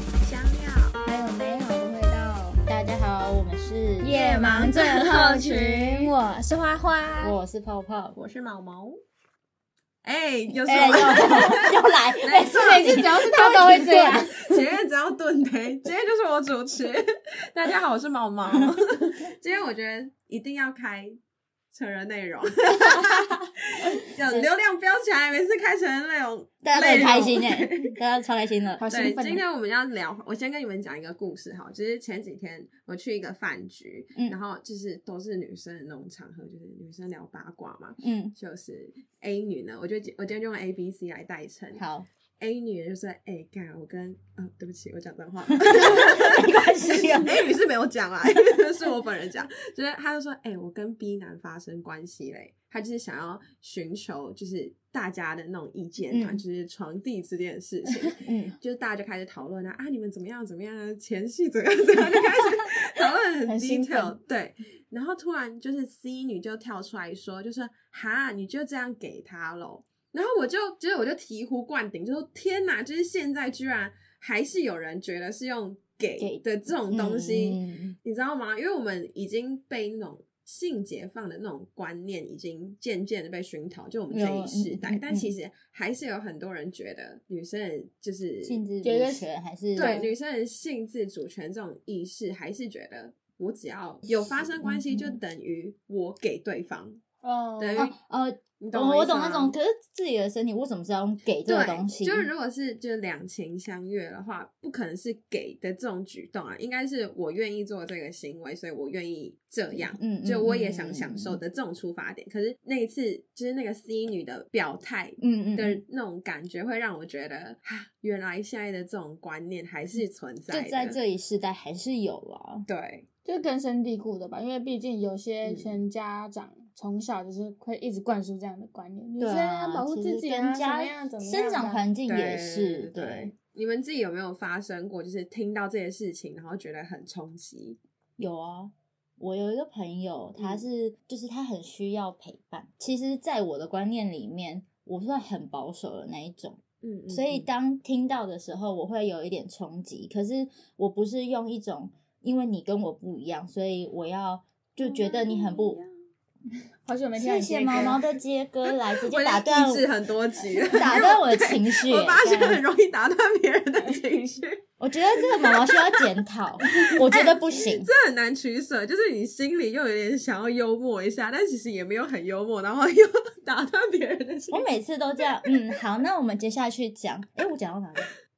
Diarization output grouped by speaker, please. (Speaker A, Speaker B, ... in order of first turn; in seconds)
Speaker A: 0.2-0.9, 4.1-6.1, 8.1-8.9, 10.0-11.7, 12.2-13.1, 14.3-21.2, 21.7-28.0, 28.9-41.8, 42.4-88.6, 89.7-97.0, 97.6-97.9, 98.6-99.5, 101.5-121.0, 122.7-123.1, 125.4-125.7, 132.1-137.8, 140.4-140.6, 146.8-147.5, 154.8-155.9, 159.1-166.1, 166.6-174.7
Speaker B: 1.0-2.6, 4.0-7.3, 11.1-11.5, 12.3-14.6, 28.8-29.4, 88.8-89.2, 89.8-90.1, 97.2-97.9, 123.2-131.8, 156.8-158.0, 163.8-164.3
Speaker C: 2.7-4.7, 7.2-8.2, 10.6-14.3, 26.6-28.8, 38.0-38.3, 41.8-42.1, 45.5-47.4, 56.1-56.4, 58.2-58.6, 62.0-62.7, 63.5-64.2, 76.2-78.0, 84.1-85.3, 88.4-90.1, 94.3-95.2, 97.8-102.3, 109.7-111.4, 115.2-115.8, 120.5-122.7, 129.2-133.3, 138.2-155.8, 157.2-159.8, 160.7-162.6, 164.8-167.9, 174.5-178.1